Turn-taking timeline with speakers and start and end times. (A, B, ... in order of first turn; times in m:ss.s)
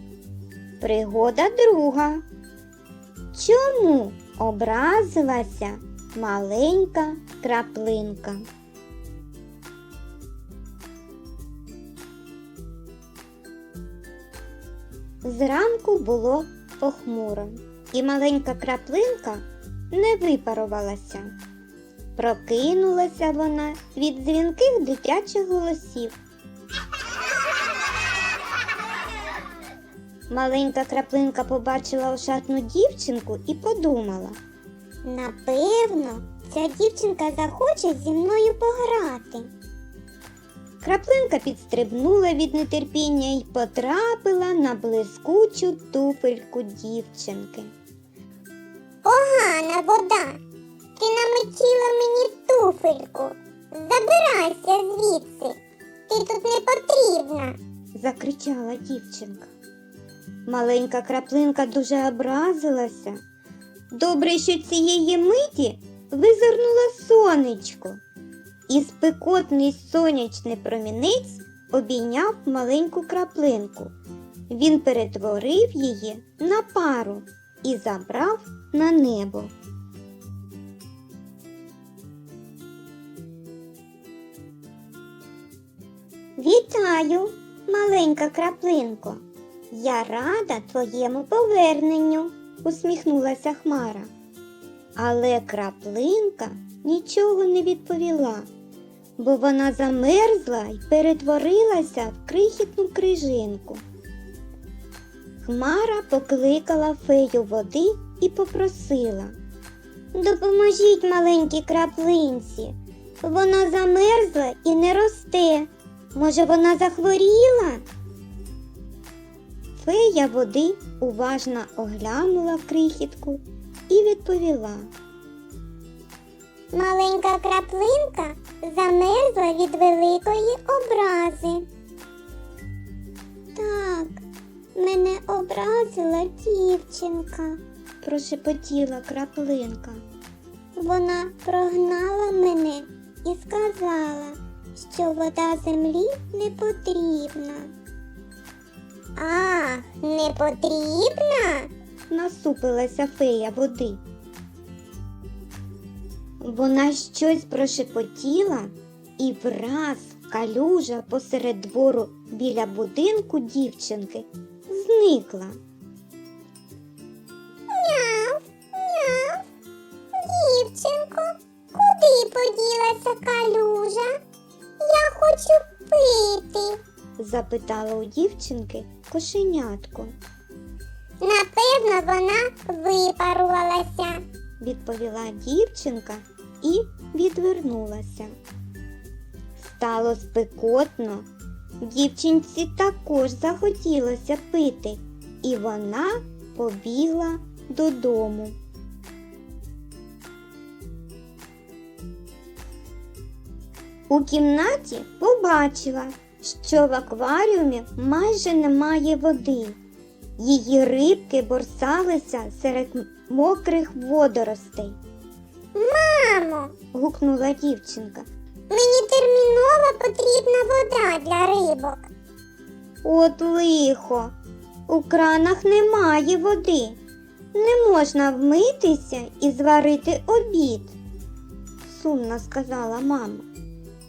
0:00.8-0:02.2 A
0:03.3-0:08.4 A
0:15.2-0:21.3 A
0:22.2-0:26.2 A
0:30.3-0:34.4 A
0:35.0-0:39.5 B
0:40.8-0:47.7 A
0:49.0-0:50.4 B
0:51.0-0:55.6 B
0:56.1-0:57.6 B
0:57.9-0:59.5 A
1:00.4-1:03.2 A
1:03.9-1:08.0 A
1:08.7-1:13.9 A
1:14.5-1:19.5 A
1:26.4-1:34.1 A
1:35.0-1:38.5 A
1:39.2-1:43.8 A
1:45.4-1:49.3 A
1:50.1-1:57.8 A
1:59.8-2:04.9 A
2:06.7-2:11.7 B
2:13.5-2:14.2 B
2:14.7-2:17.6 B
2:18.0-2:20.0 A
2:20.8-2:27.7 B
2:29.2-2:31.7 B
2:32.1-2:34.0 A
2:36.4-2:45.6 A
2:47.7-2:49.4 B
2:50.1-2:54.1 B
2:54.8-2:56.8 B
2:57.2-3:00.1 A
3:01.2-3:04.2 B
3:04.6-3:08.4 A
3:09.6-3:11.3 A
3:11.8-3:18.6 A
3:24.1-3:29.8 A
3:30.4-3:35.0 A
3:35.7-3:36.7 B
3:36.9-3:38.2 A
3:38.7-3:42.1 B
3:43.0-3:44.3 A
3:44.9-3:47.0 A
3:47.5-3:51.0 A
3:51.8-3:53.4 A